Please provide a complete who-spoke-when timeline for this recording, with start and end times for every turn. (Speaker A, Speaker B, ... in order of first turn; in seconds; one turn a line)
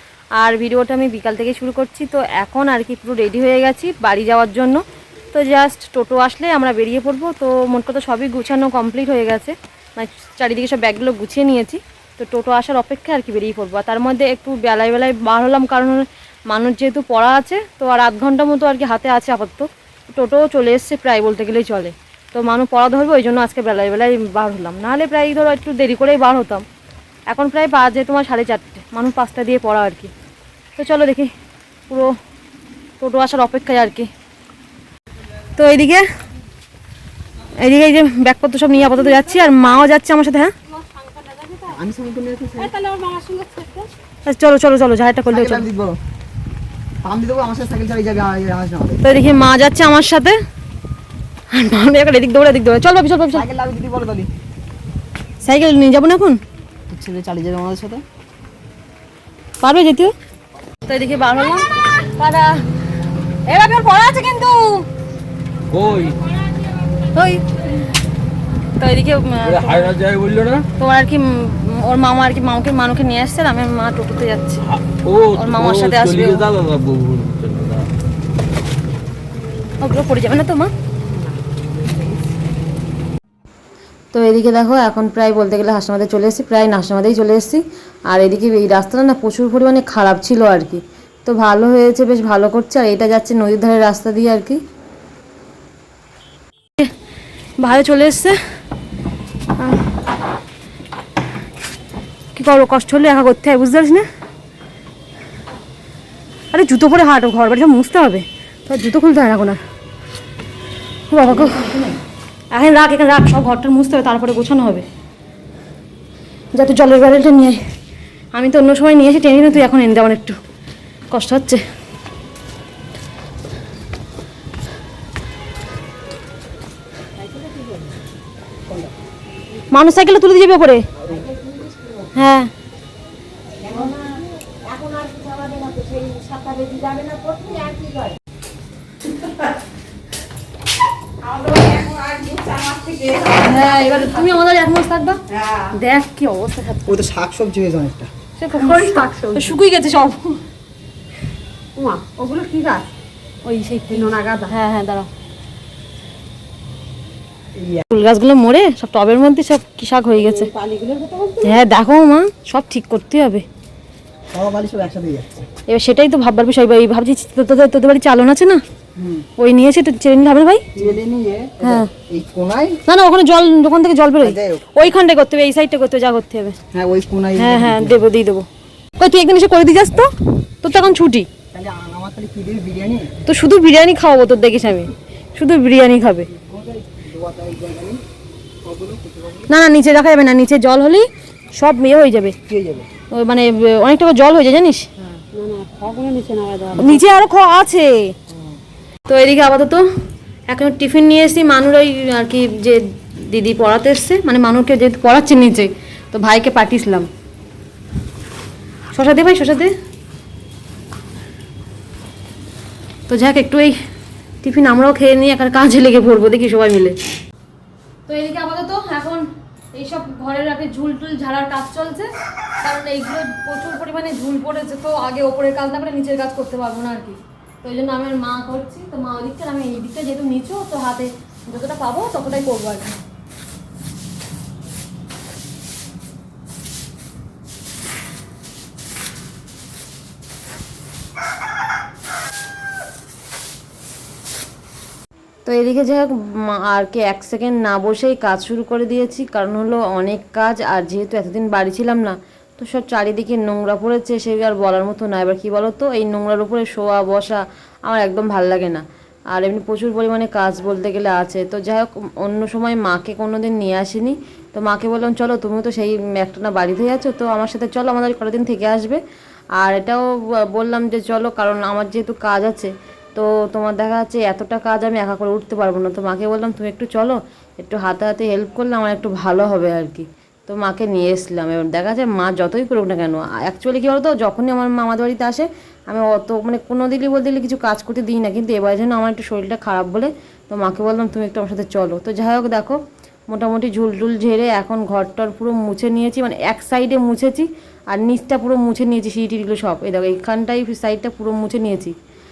Speaker A: 0.4-26.6
Speaker A: 27.3-30.1
Speaker A: 30.8-31.3
Speaker A: 33.0-34.1
Speaker A: 35.5-36.0
Speaker A: 37.5-40.5
Speaker B: 40.7-41.8
Speaker C: 41.7-42.7
Speaker B: 42.5-43.9
Speaker A: 44.2-45.6
Speaker C: 45.3-46.0
Speaker C: 47.0-49.0
Speaker A: 49.0-50.4
Speaker A: 51.5-53.5
Speaker C: 53.3-54.3
Speaker A: 55.4-56.4
Speaker C: 56.9-58.0
Speaker A: 59.6-60.1
Speaker A: 60.9-62.6
Speaker A: 63.5-64.8
Speaker D: 65.7-66.2
Speaker A: 67.0-67.4
Speaker A: 68.8-70.0
Speaker D: 69.4-70.7
Speaker A: 70.8-74.6
Speaker D: 74.7-77.9
Speaker A: 75.3-76.5
Speaker A: 79.8-80.7
Speaker B: 81.8-82.1
Speaker A: 84.1-94.6
Speaker A: 97.6-98.4
Speaker A: 99.6-99.8
Speaker A: 102.3-104.0
Speaker A: 106.5-109.6
Speaker A: 111.1-111.9
Speaker A: 112.5-114.8
Speaker A: 116.5-117.6
Speaker A: 118.3-120.3
Speaker A: 121.1-121.6
Speaker A: 129.7-130.8
Speaker B: 131.1-132.1
Speaker A: 132.1-132.5
Speaker B: 133.6-138.2
Speaker B: 141.2-144.3
Speaker A: 143.3-147.0
Speaker B: 145.4-145.7
Speaker C: 146.8-148.1
Speaker A: 148.4-150.4
Speaker B: 148.5-149.5
Speaker B: 151.8-152.9
Speaker A: 153.4-155.1
Speaker B: 153.9-154.5
Speaker C: 157.6-157.8
Speaker A: 157.9-160.5
Speaker B: 160.2-161.6
Speaker A: 161.4-163.4
Speaker C: 164.3-165.4
Speaker A: 165.7-168.6
Speaker C: 169.0-169.2
Speaker A: 169.4-170.7
Speaker C: 170.8-172.8
Speaker A: 171.6-171.9
Speaker A: 172.8-176.6
Speaker C: 174.2-174.7
Speaker C: 176.7-178.0
Speaker A: 177.4-178.4
Speaker A: 179.0-181.3
Speaker C: 181.5-183.1
Speaker A: 183.2-186.3
Speaker C: 186.3-188.0
Speaker C: 188.6-189.5
Speaker A: 189.5-192.3
Speaker C: 192.5-192.9
Speaker A: 193.1-194.8
Speaker B: 195.3-197.1
Speaker A: 196.8-198.1
Speaker A: 199.1-199.8
Speaker A: 200.5-207.1
Speaker A: 208.9-209.7
Speaker A: 213.1-213.7
Speaker A: 214.4-216.9
Speaker A: 218.1-222.1
Speaker A: 222.6-233.0
Speaker A: 245.4-269.0
Speaker A: 269.6-292.8
Speaker A: 293.3-301.9